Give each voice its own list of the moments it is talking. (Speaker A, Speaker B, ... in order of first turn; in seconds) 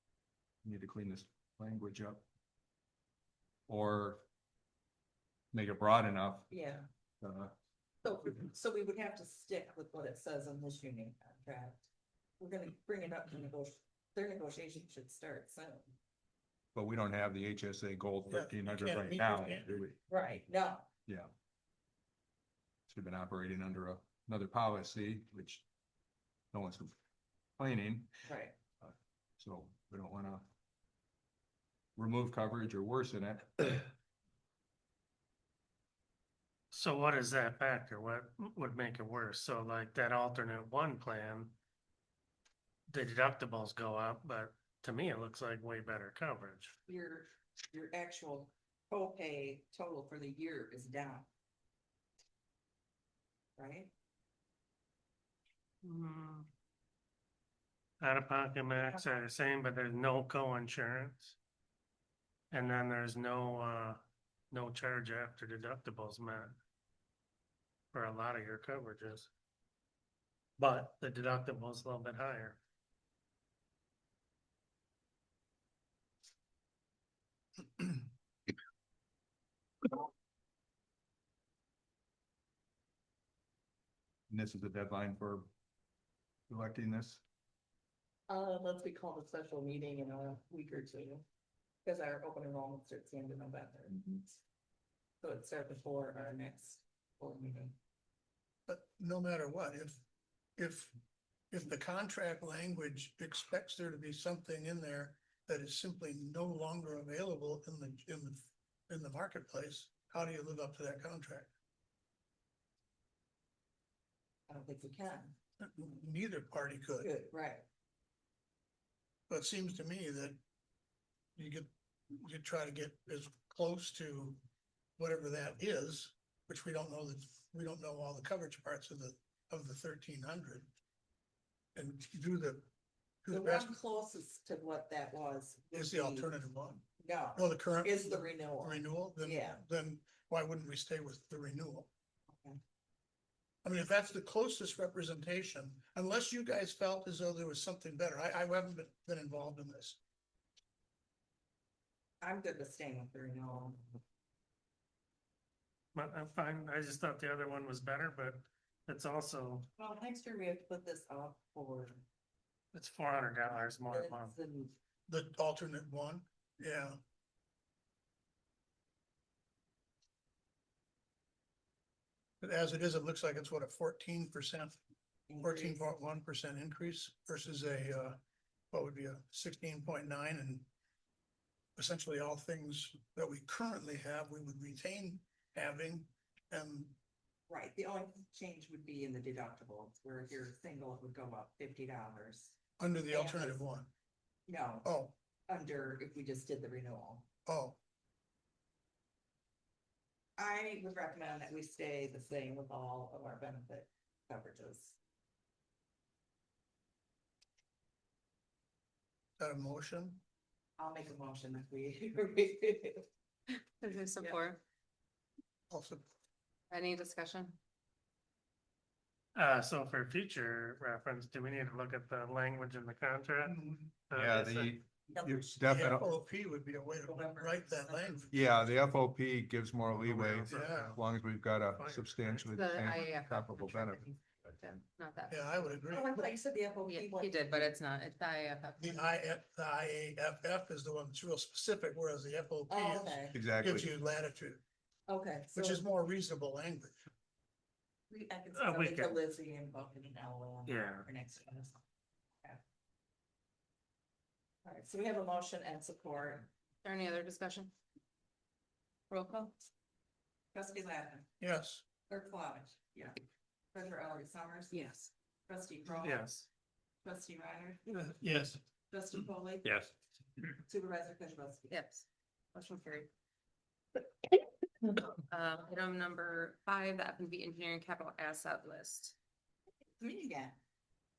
Speaker A: 0.6-2.2, 3.7-4.2, 5.5-6.5, 7.2-7.5, 16.7-20.0, 21.1-21.3, 22.9-25.6, 26.5-26.9, 27.6-28.1, 28.8-30.5, 32.0-33.9, 84.3-85.5, 86.5-87.2, 224.1-226.1, 228.3-234.0, 243.3-243.9, 269.6-269.9
Speaker B: 6.5-6.9, 8.0-11.9, 12.4-15.9, 20.1-20.9, 28.3-28.6, 46.9-51.3, 53.6-53.9, 88.3-91.2, 91.8-94.4, 95.2-97.8, 114.5-115.3, 117.0-117.7, 133.3-136.3, 137.0-139.6, 142.3-142.6, 152.2-154.0, 159.8-162.0, 163.9-164.8, 175.3-175.8, 187.5-192.6, 193.1-193.6, 194.5-194.9, 195.5-197.3, 200.4-205.0, 210.8-213.1, 225.1-225.6, 227.1-228.3, 235.9-237.7, 242.7-243.4, 245.1-245.8, 248.1-251.8, 254.6-256.5, 260.5-261.3, 262.1-263.1, 263.7-264.9, 265.5-266.3, 267.0-267.8, 268.9-269.9, 270.6-271.8, 272.5-273.1, 280.0-280.6
Speaker C: 18.3-19.7, 98.7-100.0, 100.6-101.0, 101.5-111.5, 115.6-117.1, 119.3-120.4, 121.4-124.4, 125.0-130.7, 131.8-132.7, 133.2-133.7, 135.7-136.8, 137.4-141.9, 143.6-150.0, 165.1-167.0, 172.4-174.8, 175.4-178.2, 178.7-180.7, 181.8-187.0, 192.8-193.9, 194.8-195.2, 197.5-197.8, 209.4-210.2, 215.7-216.1, 223.5-223.9, 225.6-228.3, 230.5-231.0, 235.3-236.3, 238.8-244.6, 245.5-247.0, 261.4-261.8, 268.1-268.6
Speaker D: 36.7-41.5, 42.9-46.8, 55.8-56.5, 58.0-61.4, 62.5-66.6, 67.9-69.3, 70.6-72.6, 155.9-159.7, 162.7-164.3, 219.3-224.8, 230.0-231.0, 231.7-232.5, 248.5-249.2, 250.7-251.1, 266.0-266.5
Speaker E: 213.8-214.6, 216.7-217.6, 232.5-235.9, 236.9-239.0, 256.8-257.7, 259.1-259.6, 264.7-265.1, 271.7-272.1, 275.3-279.2